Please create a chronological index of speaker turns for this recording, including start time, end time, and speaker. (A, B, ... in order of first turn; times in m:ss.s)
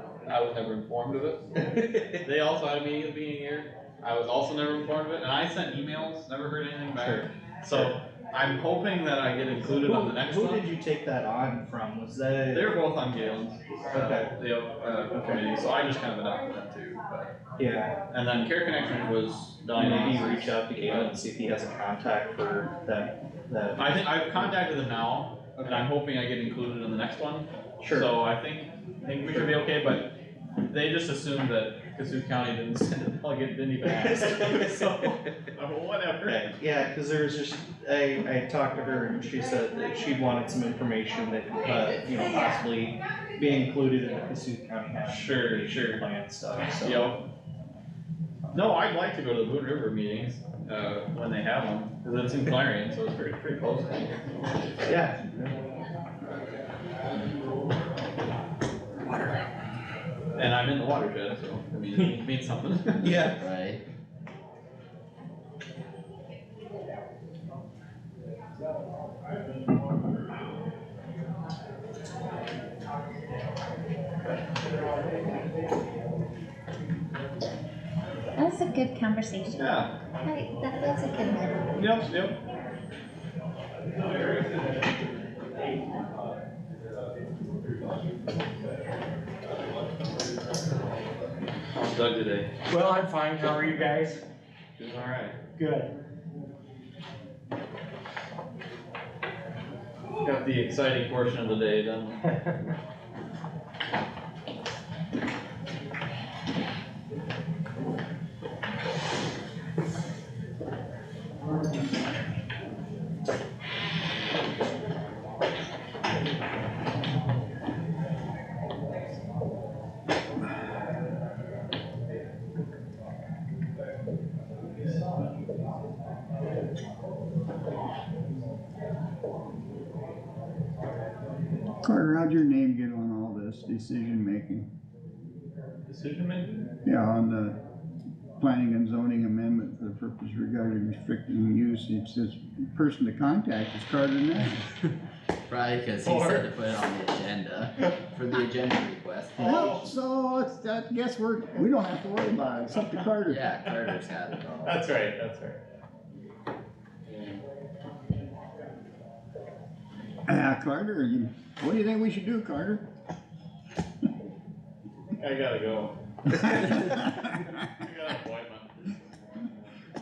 0:00.3-0:01.4 A
0:01.7-0:02.1 B
0:02.2-0:10.6 A
0:07.0-0:07.9 B
0:09.7-0:12.7 B
0:12.5-0:17.3 A
0:13.9-0:14.3 B
0:15.2-0:15.4 B
0:17.6-0:18.0 B
0:18.1-0:21.2 A
0:19.8-0:23.9 B
0:23.8-0:30.1 A
0:25.6-0:25.9 B
0:27.8-0:28.1 B
0:29.3-0:29.6 B
0:30.7-0:36.5 A
0:33.8-0:35.1 B
0:36.2-0:47.1 B
0:45.1-0:46.1 A
0:46.7-0:47.3 A
0:48.5-0:54.2 A
0:54.9-0:55.5 B
1:00.4-1:03.2 A
1:03.0-1:03.4 B
1:03.2-1:03.8 C
1:18.4-1:19.7 D
1:19.6-1:19.9 A
1:20.2-1:21.6 D
1:21.8-1:22.4 A
1:31.8-1:32.5 A
1:32.7-1:34.2 E
1:34.8-1:35.4 A
1:35.6-1:35.9 E
1:40.2-1:42.2 A
2:11.8-2:14.7 F
2:15.9-2:16.6 A
2:16.8-2:17.6 F
2:18.4-2:24.7 F
2:25.5-2:29.8 C
2:26.0-2:26.5 A
2:29.4-2:29.8 A
2:29.4-2:33.4 F
2:33.3-2:34.8 C
2:34.6-2:35.6 A
2:37.1-2:37.4 A
2:40.3-2:42.8 F
2:45.2-2:45.9 A
2:46.6-2:47.3 F
2:47.8-2:48.7 A